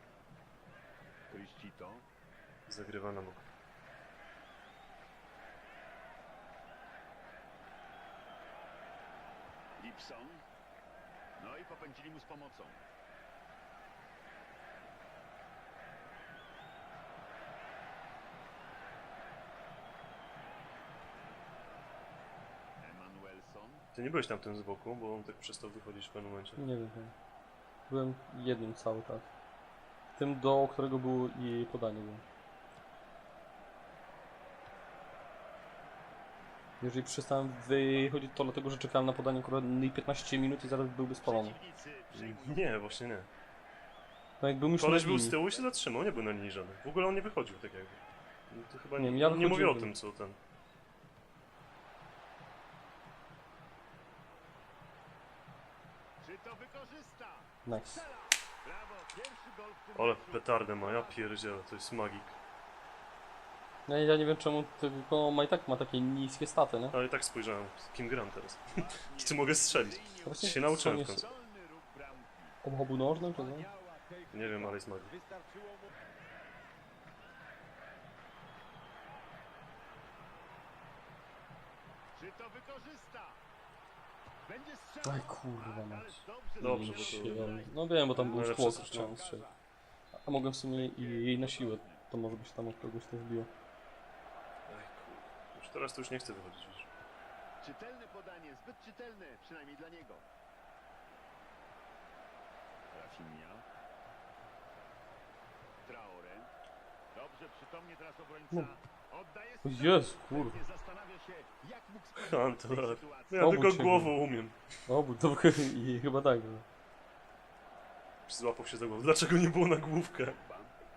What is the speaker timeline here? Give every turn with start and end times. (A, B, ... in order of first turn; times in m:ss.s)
0:01.3-0:02.0 A
0:02.7-0:03.5 B
0:09.8-0:10.4 A
0:11.4-0:12.8 A
0:22.8-0:23.8 A
0:23.9-0:26.6 B
0:26.6-0:27.1 C
0:27.9-0:29.3 C
0:30.2-0:32.2 C
0:36.8-0:41.6 C
0:41.2-0:43.0 A
0:42.1-0:43.3 B
0:44.4-0:45.4 C
0:44.8-0:50.4 B
0:49.0-0:49.9 C
0:56.2-1:01.2 A
0:57.6-0:58.0 C
0:59.9-1:02.4 B
1:03.9-1:07.0 C
1:06.9-1:11.3 B
1:08.7-1:12.6 A
1:10.2-1:11.2 C
1:12.6-1:13.7 C
1:13.1-1:15.9 D
1:14.3-1:15.1 B
1:22.1-1:23.4 A
1:24.4-1:29.6 A
1:25.0-1:29.4 C
1:26.6-1:29.1 B
1:30.2-1:33.5 C
1:30.7-1:32.0 A
1:34.7-1:36.9 B
1:37.6-1:40.2 A
1:42.9-1:43.6 A
1:45.8-1:46.5 A
1:47.1-1:53.7 A
1:49.6-1:50.6 C
1:52.2-1:54.6 B
1:53.4-1:54.1 C
1:54.9-1:56.6 C
1:58.3-2:00.4 B
2:00.3-2:00.7 A